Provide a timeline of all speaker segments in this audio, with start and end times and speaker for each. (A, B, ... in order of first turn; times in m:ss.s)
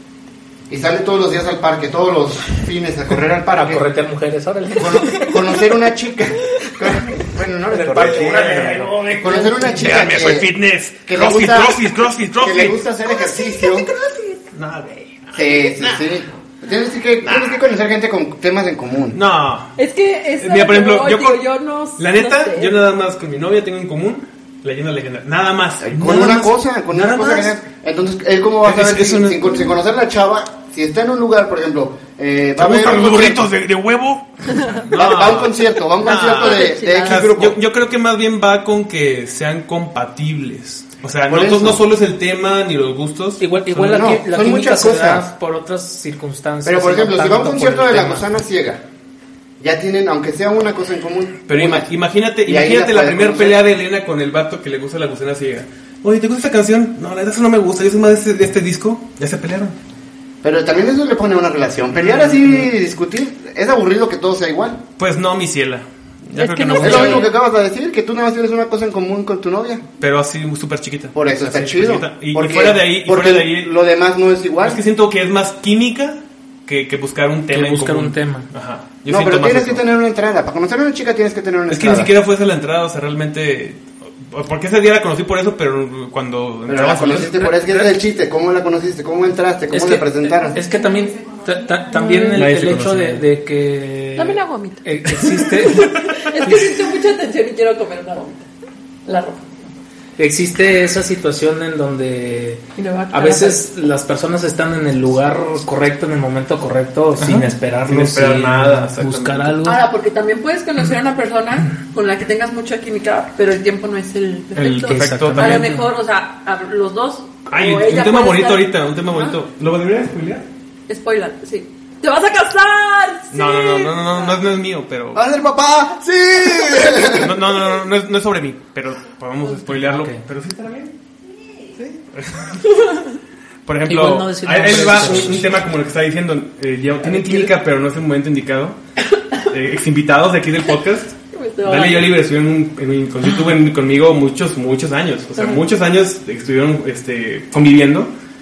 0:00.7-0:03.9 A
0:03.5-0:05.4 B
0:04.8-0:10.5 A
0:07.7-0:10.0 B
0:07.9-0:09.0 C
0:09.8-0:12.8 C
0:11.1-0:11.8 A
0:12.4-0:13.9 A
0:13.1-0:14.4 D
0:14.5-0:16.1 C
0:15.3-0:19.2 A
0:17.2-0:17.6 C
0:19.1-0:19.8 C
0:19.8-0:22.8 D
0:20.4-0:27.6 C
0:25.8-0:33.5 A
0:28.6-0:29.6 C
0:32.6-0:44.2 C
0:34.9-0:37.6 A
0:36.0-0:37.3 D
0:41.3-0:41.8 A
0:43.4-0:48.2 B
0:43.8-0:45.3 A
0:46.6-0:48.8 A
0:49.6-0:51.9 A
0:51.5-0:59.8 C
0:52.4-0:53.6 A
1:00.4-1:04.8 A
1:01.9-1:02.7 C
1:05.0-1:07.3 C
1:06.3-1:07.3 D
1:06.8-1:09.8 A
1:10.0-1:13.7 C
1:11.1-1:14.8 A
1:14.6-1:19.8 C
1:17.5-1:18.5 B
1:19.1-1:22.1 A
1:21.7-1:28.0 C
1:26.7-1:30.6 A
1:29.7-1:36.7 B
1:31.9-1:32.4 D
1:32.3-1:33.2 C
1:34.2-1:34.8 D
1:35.6-1:38.5 D
1:39.1-1:39.4 D
1:40.2-1:49.8 B
1:42.8-1:43.6 D
1:47.2-1:49.6 C
1:49.6-1:59.4 D
1:54.6-1:55.8 C
1:54.8-1:55.9 B
1:57.5-2:00.5 C
2:00.9-2:04.4 D
2:03.3-2:05.3 C
2:05.1-2:07.5 A
2:06.5-2:11.0 C
2:09.8-2:10.2 B
2:11.8-2:12.9 C
2:12.7-2:13.0 D
2:13.7-2:18.8 C
2:13.9-2:15.6 B
2:17.0-2:17.5 B
2:19.4-2:28.1 C
2:21.3-2:22.1 D